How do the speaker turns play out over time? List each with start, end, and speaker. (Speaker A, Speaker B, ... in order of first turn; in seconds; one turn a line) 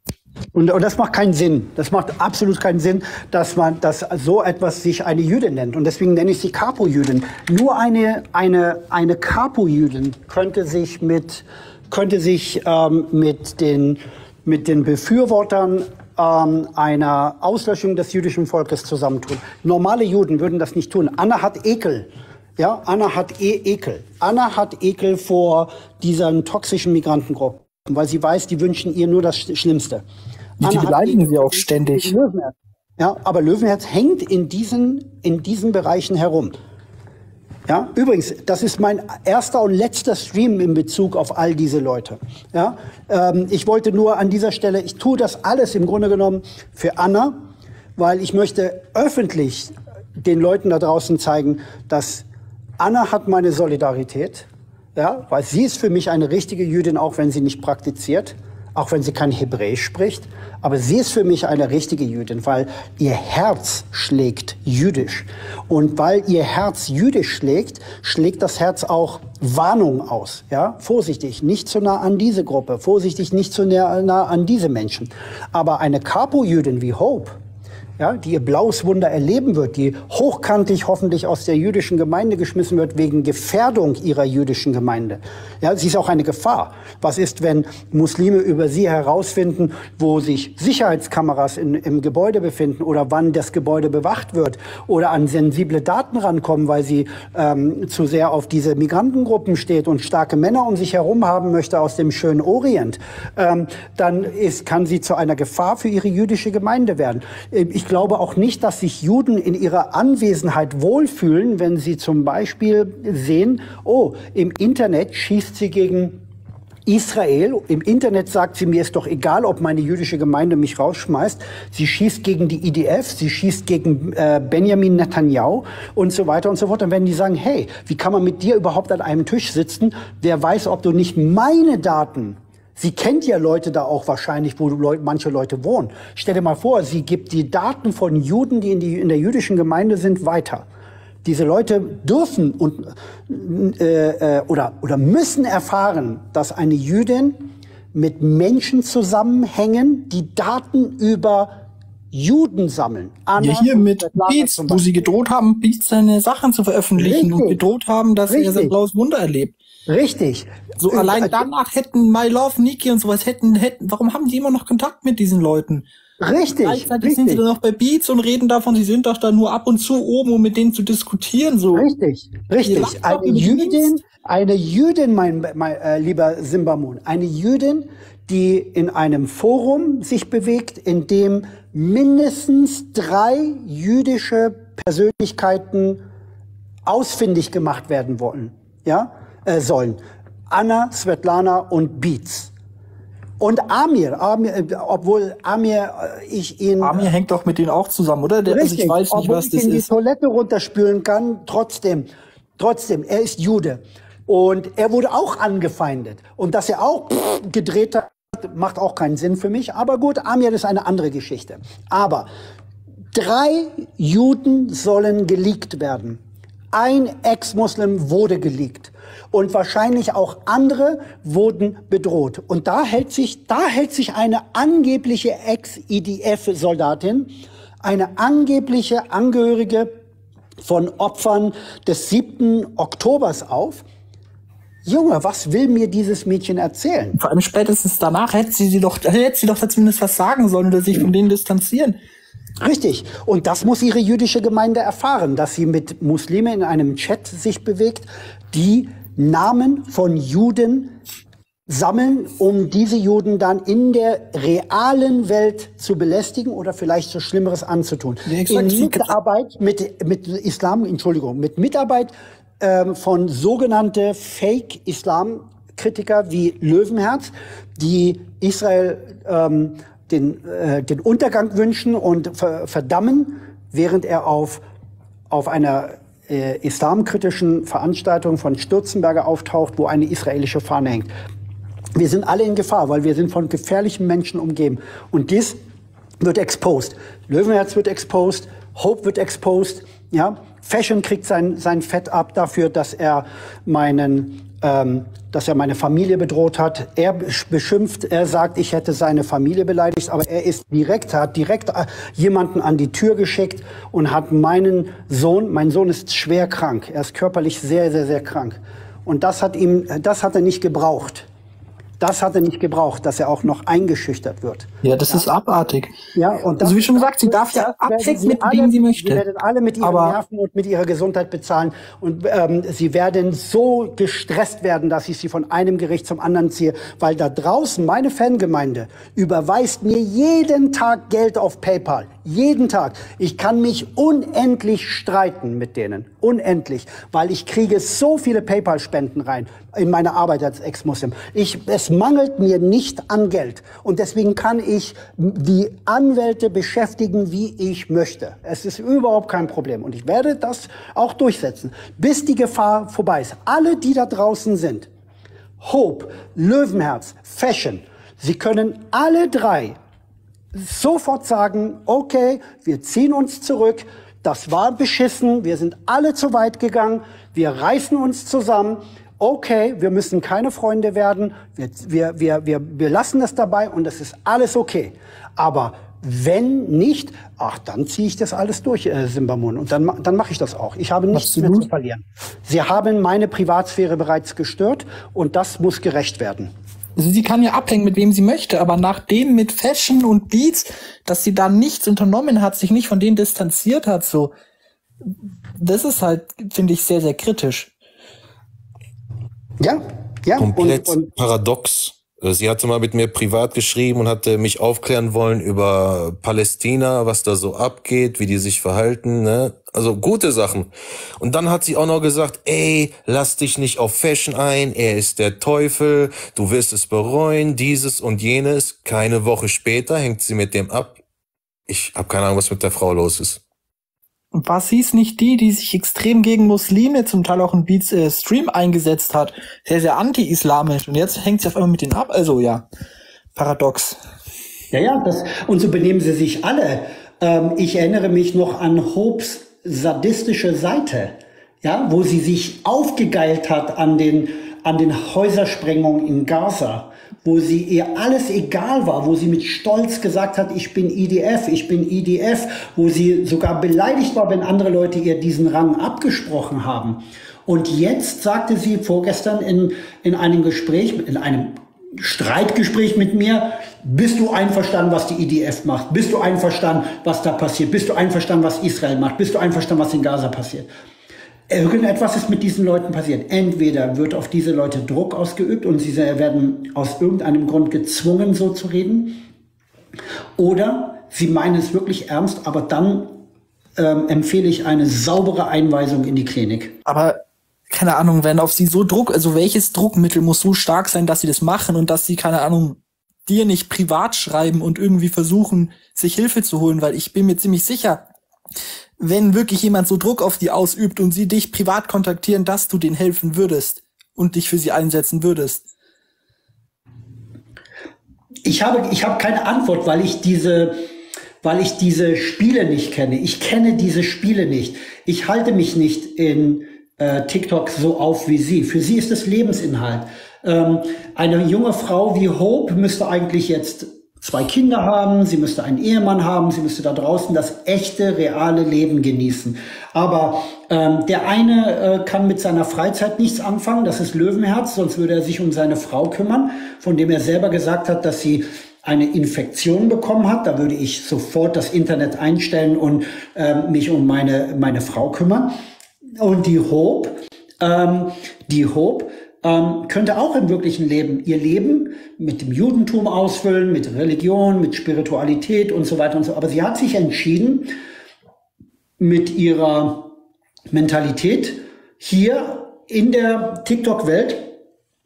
Speaker A: 0.6-30.0
Speaker A: 30.6-36.6
Speaker B: 30.6-32.1
Speaker A: 37.7-47.4
Speaker A: 48.0-52.2
Speaker A: 52.8-77.4
Speaker A: 78.0-116.2
Speaker A: 116.9-140.7
Speaker A: 141.2-154.8
Speaker B: 153.4-159.5
Speaker A: 157.0-157.6
Speaker A: 158.3-158.7
Speaker A: 159.9-161.4
Speaker B: 160.8-165.8
Speaker A: 166.2-167.4
Speaker B: 166.6-171.9
Speaker A: 171.7-186.0
Speaker B: 172.7-173.9
Speaker A: 186.9-192.5
Speaker A: 193.4-197.1
Speaker B: 196.8-199.9
Speaker A: 198.5-212.3
Speaker A: 213.1-216.2
Speaker A: 216.7-229.9
Speaker A: 230.6-233.8
Speaker A: 234.8-237.2
Speaker B: 237.2-242.0
Speaker A: 242.6-251.0
Speaker A: 251.7-274.6
Speaker B: 258.3-259.1
Speaker A: 275.3-281.1
Speaker A: 281.9-285.6
Speaker A: 286.2-311.3
Speaker A: 312.0-315.3
Speaker B: 314.8-315.9
Speaker A: 316.1-354.9
Speaker B: 316.6-319.2
Speaker B: 319.8-320.2
Speaker A: 355.6-359.8
Speaker A: 360.5-386.5
Speaker B: 381.1-381.7
Speaker B: 387.0-394.3
Speaker B: 395.6-397.7
Speaker A: 399.6-401.1
Speaker C: 400.4-421.0
Speaker C: 421.7-423.4
Speaker B: 424.3-432.7
Speaker B: 433.4-434.0
Speaker A: 434.7-470.7
Speaker A: 471.5-479.2
Speaker A: 480.4-483.2
Speaker A: 483.8-486.8
Speaker B: 486.9-487.2
Speaker B: 487.7-498.1
Speaker B: 499.0-505.6
Speaker A: 508.4-510.9
Speaker A: 511.4-545.5
Speaker A: 546.2-557.8
Speaker A: 559.0-560.1
Speaker A: 560.7-564.5